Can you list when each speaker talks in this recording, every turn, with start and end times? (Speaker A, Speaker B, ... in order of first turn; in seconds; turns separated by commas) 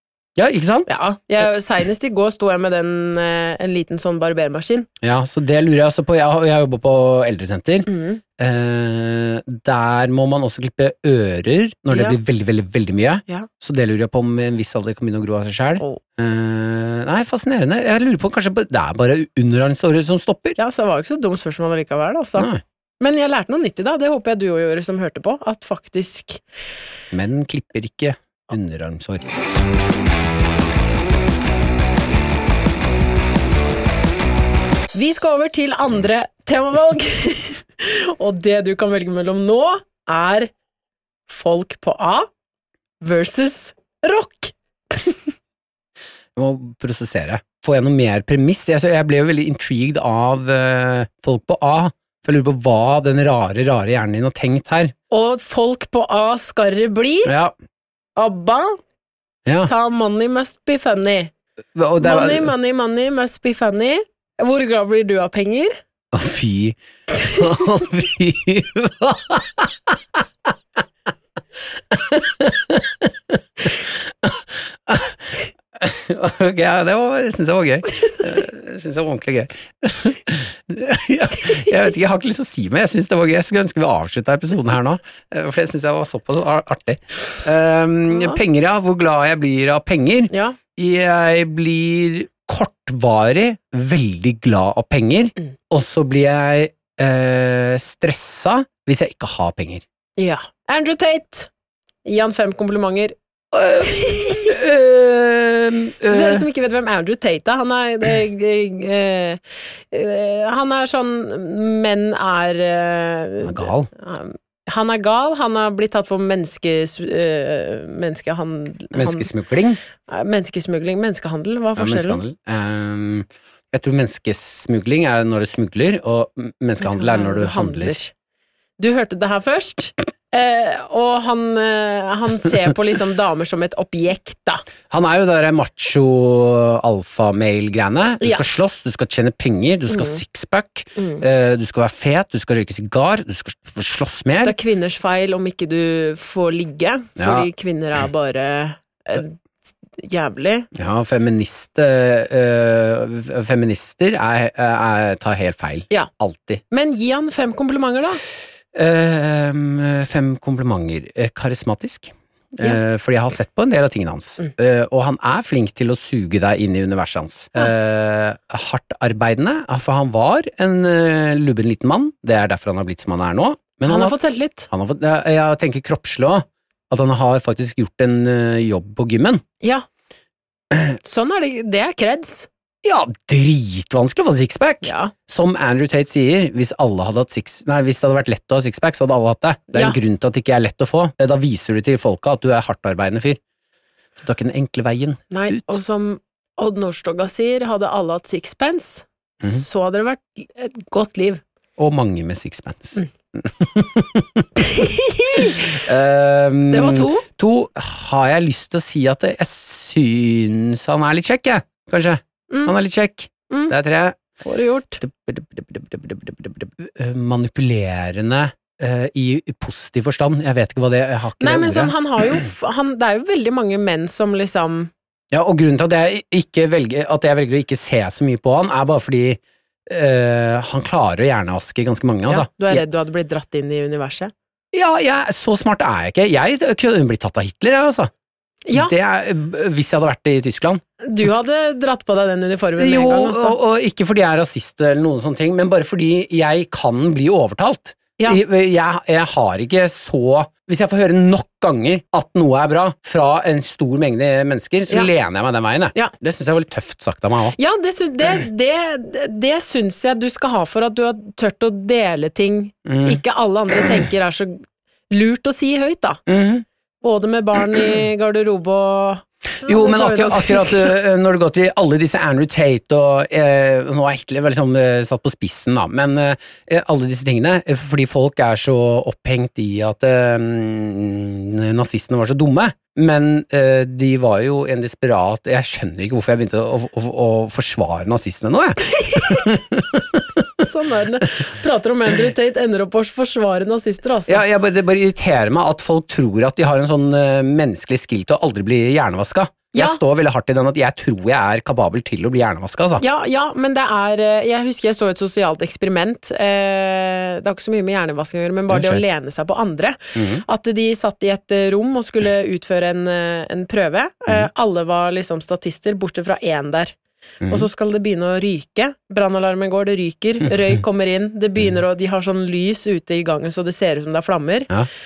Speaker A: 0.4-1.4, Speaker B: 0.9-4.9, Speaker A: 5.0-20.6, Speaker B: 7.9-8.2, Speaker B: 11.9-12.2, Speaker B: 20.6-22.5, Speaker A: 22.4-22.6, Speaker B: 23.0-26.4, Speaker A: 27.1-29.4, Speaker B: 34.9-40.5, Speaker B: 41.3-42.3, Speaker B: 43.0-45.2, Speaker A: 46.4-54.9, Speaker B: 55.1-57.3, Speaker A: 57.3-57.5, Speaker B: 58.2-58.8, Speaker A: 59.5-59.7, Speaker B: 59.6-61.3, Speaker A: 61.8-62.5, Speaker B: 62.0-65.8, Speaker A: 66.1-70.2, Speaker A: 71.9-99.8, Speaker B: 88.1-88.4, Speaker B: 90.3-90.6, Speaker B: 100.2-101.5, Speaker B: 102.0-103.2, Speaker A: 103.5-106.5, Speaker B: 103.8-104.5, Speaker B: 106.1-109.4, Speaker B: 109.9-119.3, Speaker A: 113.4-113.9, Speaker A: 118.9-119.8, Speaker B: 120.1-122.2, Speaker A: 121.8-128.0, Speaker B: 126.8-128.1, Speaker B: 128.8-134.6, Speaker A: 134.9-144.6, Speaker B: 139.9-140.2, Speaker B: 141.0-141.2, Speaker B: 144.4-149.4, Speaker A: 147.2-147.5, Speaker B: 150.0-150.7, Speaker A: 150.7-156.6, Speaker B: 156.7-158.2, Speaker A: 158.7-174.2, Speaker B: 173.9-174.7, Speaker A: 174.7-179.4, Speaker B: 179.6-179.9, Speaker B: 181.0-182.5, Speaker A: 182.8-193.4, Speaker B: 184.8-185.1, Speaker A: 194.2-195.8, Speaker B: 195.3-201.4, Speaker A: 201.8-204.5, Speaker B: 204.6-205.7, Speaker A: 205.4-214.2, Speaker B: 206.7-207.3, Speaker B: 214.4-215.0, Speaker A: 215.0-222.4, Speaker B: 221.4-224.9, Speaker A: 225.3-232.8, Speaker B: 232.3-234.3, Speaker A: 234.7-238.1, Speaker B: 238.7-238.9, Speaker A: 238.7-241.3, Speaker B: 241.0-243.6, Speaker A: 242.8-257.6, Speaker B: 257.6-266.2, Speaker A: 262.9-263.2, Speaker A: 266.3-266.7, Speaker B: 267.0-270.9, Speaker A: 269.6-290.5, Speaker B: 289.1-289.4, Speaker B: 290.6-294.4, Speaker A: 294.3-303.0, Speaker B: 299.7-300.0, Speaker B: 303.0-316.9, Speaker A: 308.7-309.0, Speaker A: 310.1-310.4, Speaker A: 317.4-317.7, Speaker B: 317.5-324.7, Speaker A: 320.4-320.8